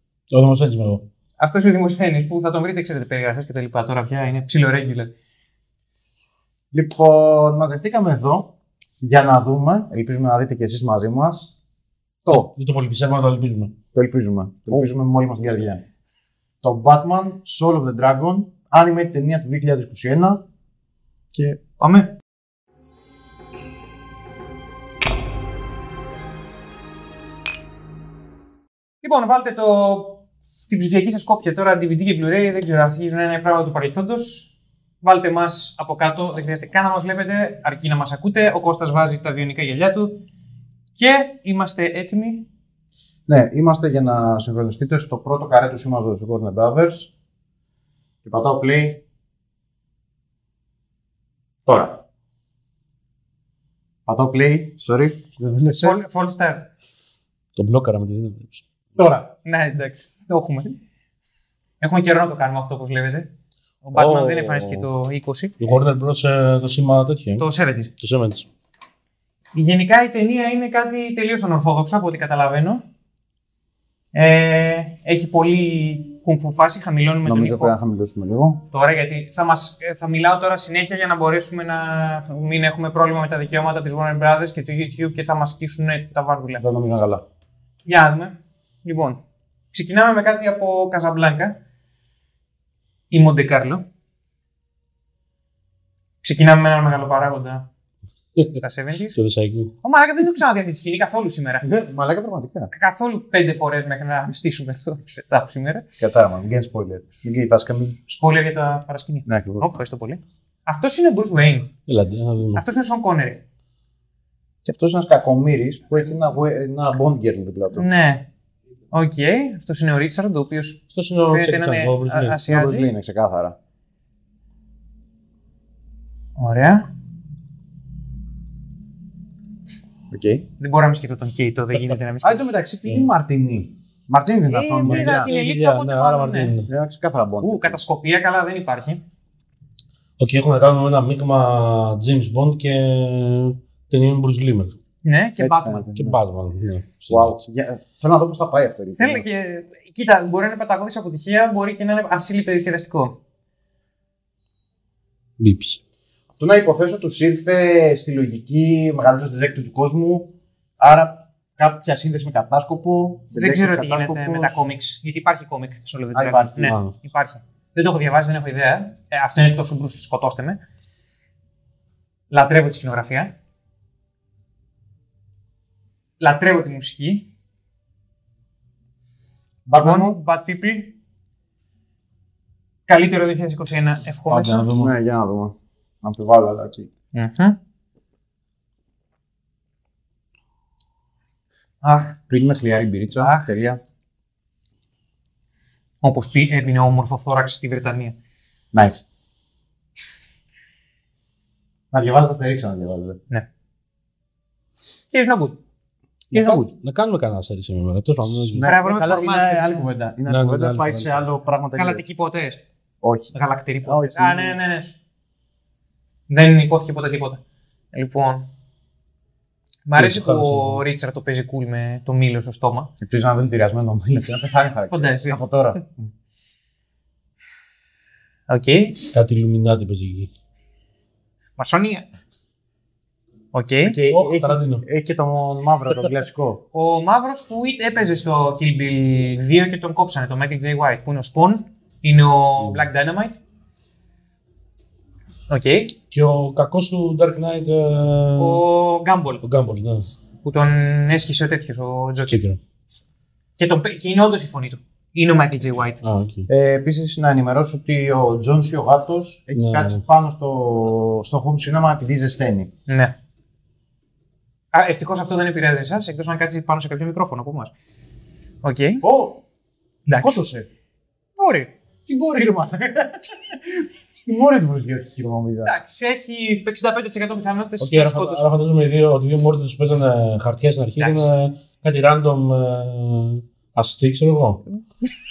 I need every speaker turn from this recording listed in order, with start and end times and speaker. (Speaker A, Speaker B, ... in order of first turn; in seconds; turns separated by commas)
Speaker A: 0.3-1.1, Speaker B: 1.4-5.1, Speaker C: 6.7-11.6, Speaker C: 12.2-12.5, Speaker A: 12.3-13.8, Speaker C: 13.9-15.8, Speaker C: 16.6-20.4, Speaker B: 21.8-22.2, Speaker B: 29.0-34.5, Speaker B: 35.0-40.2, Speaker B: 41.0-42.5, Speaker C: 43.3-47.1, Speaker C: 48.2-49.0, Speaker C: 51.6-52.0, Speaker C: 54.1-56.0, Speaker B: 55.8-56.7, Speaker A: 57.6-58.6, Speaker C: 59.0-59.3, Speaker B: 59.5-60.8, Speaker B: 61.8-63.3, Speaker B: 63.8-65.5, Speaker A: 63.9-64.9, Speaker A: 65.6-67.5, Speaker B: 67.4-67.9, Speaker A: 68.0-68.5, Speaker B: 69.5-72.8, Speaker B: 74.1-77.7, Speaker C: 77.3-78.6, Speaker B: 78.7-86.6, Speaker C: 86.6-87.2, Speaker B: 87.8-89.2, Speaker B: 89.7-91.6, Speaker B: 93.1-93.9, Speaker B: 96.2-97.7, Speaker B: 98.5-99.2, Speaker A: 99.1-99.7, Speaker B: 99.8-101.7, Speaker C: 101.6-102.7, Speaker B: 102.7-105.9, Speaker C: 105.9-108.0, Speaker B: 108.1-111.7, Speaker C: 109.3-109.7, Speaker A: 111.9-112.6, Speaker B: 112.6-113.4, Speaker C: 114.7-117.9, Speaker B: 117.8-118.3, Speaker B: 118.9-122.9, Speaker A: 120.9-122.4, Speaker C: 122.5-123.6, Speaker B: 126.4-126.9, Speaker C: 130.1-130.5, Speaker B: 130.6-132.5, Speaker C: 132.2-135.3, Speaker B: 134.5-136.6, Speaker A: 134.8-136.7, Speaker C: 136.7-137.8, Speaker B: 137.4-139.0, Speaker A: 140.2-144.8, Speaker B: 145.0-145.9, Speaker C: 145.4-146.2, Speaker A: 145.9-147.4, Speaker C: 147.1-149.2, Speaker B: 149.0-153.2, Speaker A: 155.4-155.8, Speaker C: 156.4-164.6, Speaker B: 163.3-170.6, Speaker C: 166.1-166.7, Speaker A: 166.6-166.9, Speaker B: 172.3-173.3, Speaker B: 176.2-177.3, Speaker C: 179.7-180.2, Speaker B: 179.8-180.9, Speaker B: 182.9-184.7, Speaker A: 184.3-184.9, Speaker C: 184.7-186.9, Speaker B: 187.1-187.6, Speaker B: 191.8-192.2, Speaker C: 192.3-193.8, Speaker B: 193.2-193.5, Speaker B: 196.0-198.2, Speaker C: 198.7-199.1, Speaker C: 201.9-203.2, Speaker B: 205.1-205.6, Speaker C: 206.3-206.7, Speaker A: 206.3-208.6, Speaker C: 208.5-212.0, Speaker B: 208.6-209.9, Speaker A: 210.3-211.2, Speaker B: 211.8-212.6, Speaker C: 213.0-213.3, Speaker B: 213.3-215.0, Speaker C: 213.8-214.6, Speaker B: 216.3-218.5, Speaker B: 219.9-222.9, Speaker A: 220.0-220.8, Speaker C: 223.0-226.1, Speaker B: 224.9-225.4, Speaker B: 228.5-229.2, Speaker A: 229.1-230.3, Speaker B: 231.6-232.1, Speaker B: 233.5-234.0, Speaker C: 233.8-236.6, Speaker A: 234.1-234.8, Speaker B: 236.7-243.4, Speaker B: 245.5-246.0, Speaker A: 246.1-248.7, Speaker B: 248.4-249.4, Speaker A: 249.4-250.2, Speaker B: 250.4-252.4, Speaker A: 252.3-252.6, Speaker B: 253.6-256.0, Speaker A: 256.0-256.5, Speaker C: 256.5-262.7, Speaker A: 259.6-260.0, Speaker B: 262.9-263.1, Speaker B: 264.7-267.7, Speaker B: 268.6-269.0, Speaker C: 269.0-269.4, Speaker B: 270.1-270.4, Speaker C: 270.1-270.7, Speaker B: 271.4-271.7, Speaker C: 272.1-275.7, Speaker B: 275.7-278.5, Speaker A: 277.8-284.7, Speaker B: 281.0-281.3